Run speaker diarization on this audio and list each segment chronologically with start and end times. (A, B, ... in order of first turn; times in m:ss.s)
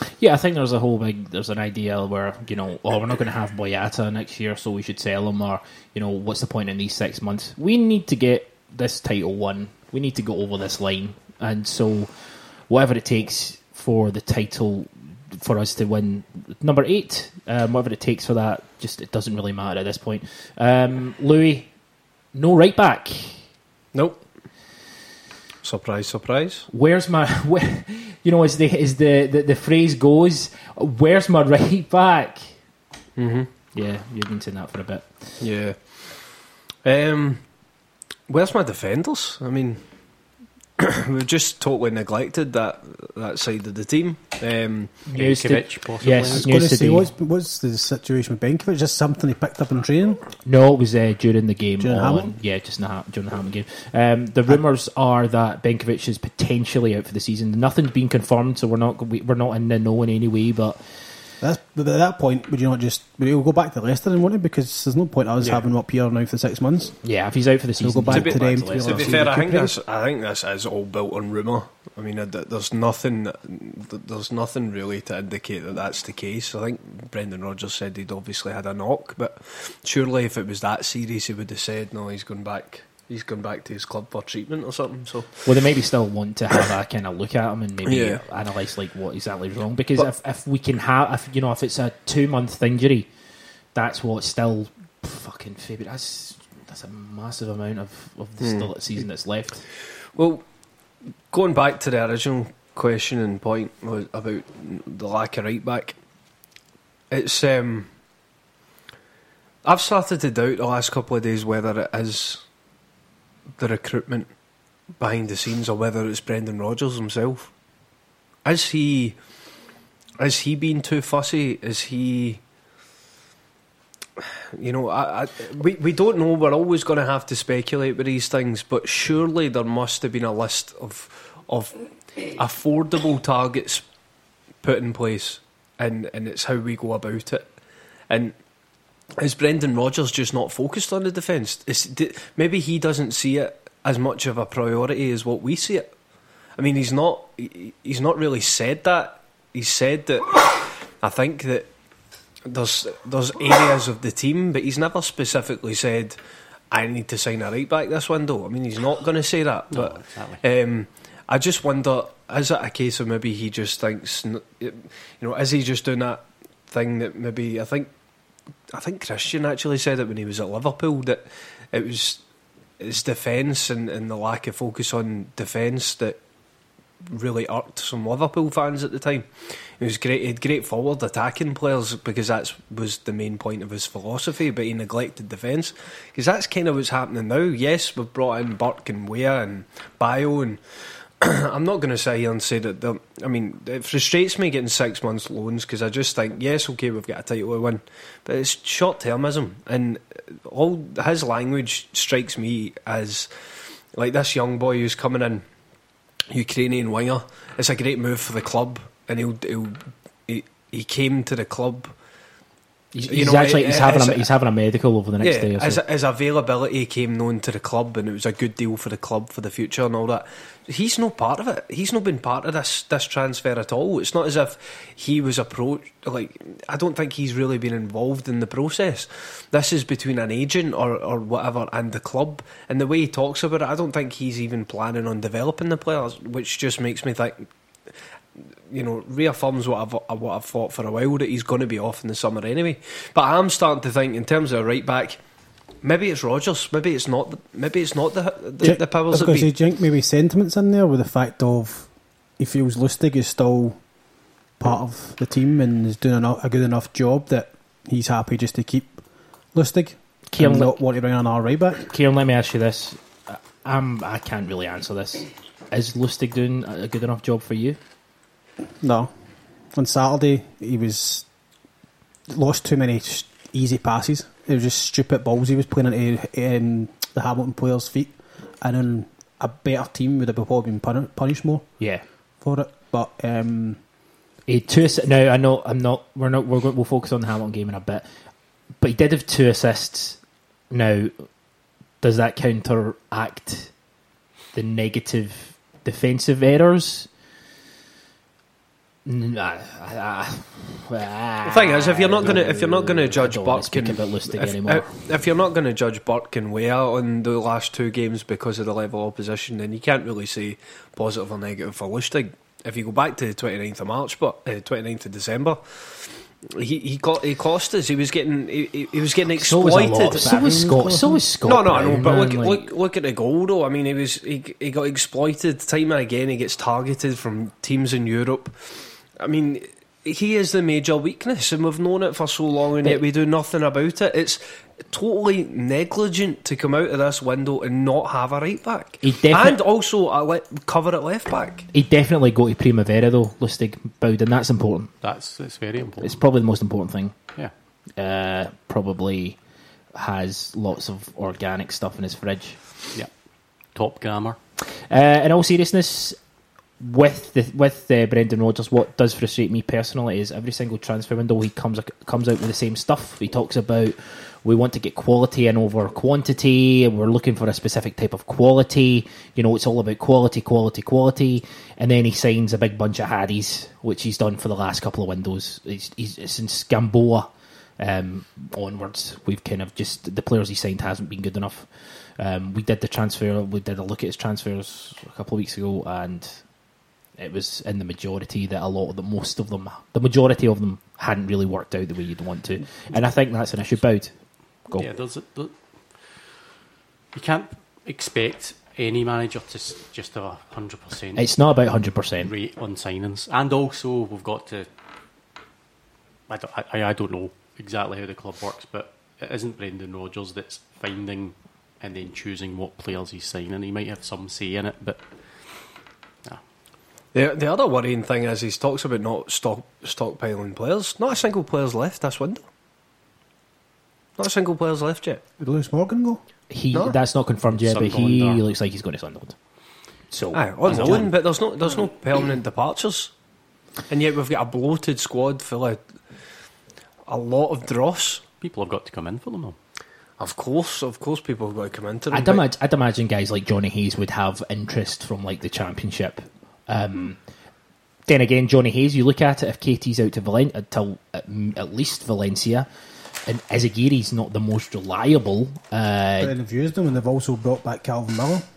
0:00.2-0:21.7 A
0:22.3-0:23.4 A
0:23.9-0:24.2 B
0:25.6-0:26.7 B
0:26.7-0:32.6 A
0:33.2-0:33.5 B
0:33.7-0:35.4 A
0:35.4-0:37.5 B
0:38.3-0:39.8 B
0:40.8-0:45.0 B
0:45.1-0:47.1 A
0:45.1-0:46.5 C
0:46.2-0:50.2 D
0:50.4-1:01.2 A
0:51.8-0:52.4 D
1:01.4-1:07.1 D
1:07.0-1:09.2 A
1:07.8-1:09.8 D
1:08.1-1:25.5 B
1:25.4-1:33.1 A
1:27.9-1:28.2 B
1:33.7-1:39.6 A
1:38.4-1:38.7 B
1:40.1-1:40.5 B
1:41.3-1:46.0 B
1:47.1-1:47.9 B
1:49.6-1:52.4 B
1:53.6-1:54.3 B
1:55.0-1:57.5 B
1:58.4-1:59.2 B
2:00.2-2:02.4 B
2:04.5-2:13.9 B
2:14.6-2:17.5 B
2:18.1-2:18.4 B
2:19.2-2:25.9 B
2:26.6-2:31.7 B
2:32.5-2:36.2 B
2:36.7-2:47.9 B
2:39.7-2:40.4 C
2:48.7-2:52.2 B
2:52.8-2:56.2 B
2:57.0-3:25.4 B
3:26.3-3:32.0 B
3:32.9-3:35.8 A
3:33.1-3:34.3 B
3:35.2-3:57.5 B
3:58.7-4:05.2 B
4:05.8-4:09.5 B
4:08.6-4:13.8 D
4:14.6-4:19.0 D
4:19.5-4:21.9 D
4:20.3-4:20.8 A
4:21.9-4:27.8 A
4:28.8-4:29.1 D
4:29.7-4:31.3 D
4:32.3-4:43.8 D
4:41.8-4:42.0 A
4:44.5-4:48.1 A
4:48.8-4:51.3 A
4:52.0-4:53.7 A
4:54.5-4:57.1 A
4:59.0-5:05.0 A
5:01.4-5:20.4 B
5:19.3-5:22.7 A
5:20.2-5:21.2 D
5:21.4-5:41.6 B
5:39.0-5:39.6 A
5:41.7-5:44.9 A
5:45.0-5:46.2 C
5:46.0-5:47.1 A
5:48.0-5:49.4 A
5:49.9-5:52.8 A
5:52.9-5:54.4 C
5:54.7-5:56.2 A
5:56.8-6:17.3 A
6:17.8-6:26.5 A
6:27.1-6:34.9 A
6:34.8-6:36.3 C
6:37.1-6:41.2 C
6:41.2-6:42.3 A
6:42.2-6:44.7 C
6:46.3-6:56.4 C
6:57.1-7:02.4 B
7:04.2-7:05.2 B
7:05.4-7:06.2 D
7:06.5-7:09.5 A
7:07.5-7:08.4 C
7:10.1-7:11.1 A
7:10.3-7:13.1 B
7:10.6-7:11.2 C
7:13.9-7:15.9 B
7:17.1-7:18.2 B
7:18.4-7:19.6 C
7:20.2-7:22.4 B
7:22.1-7:27.2 A
7:28.1-7:32.7 A
7:33.2-7:36.3 A
7:36.2-7:38.4 D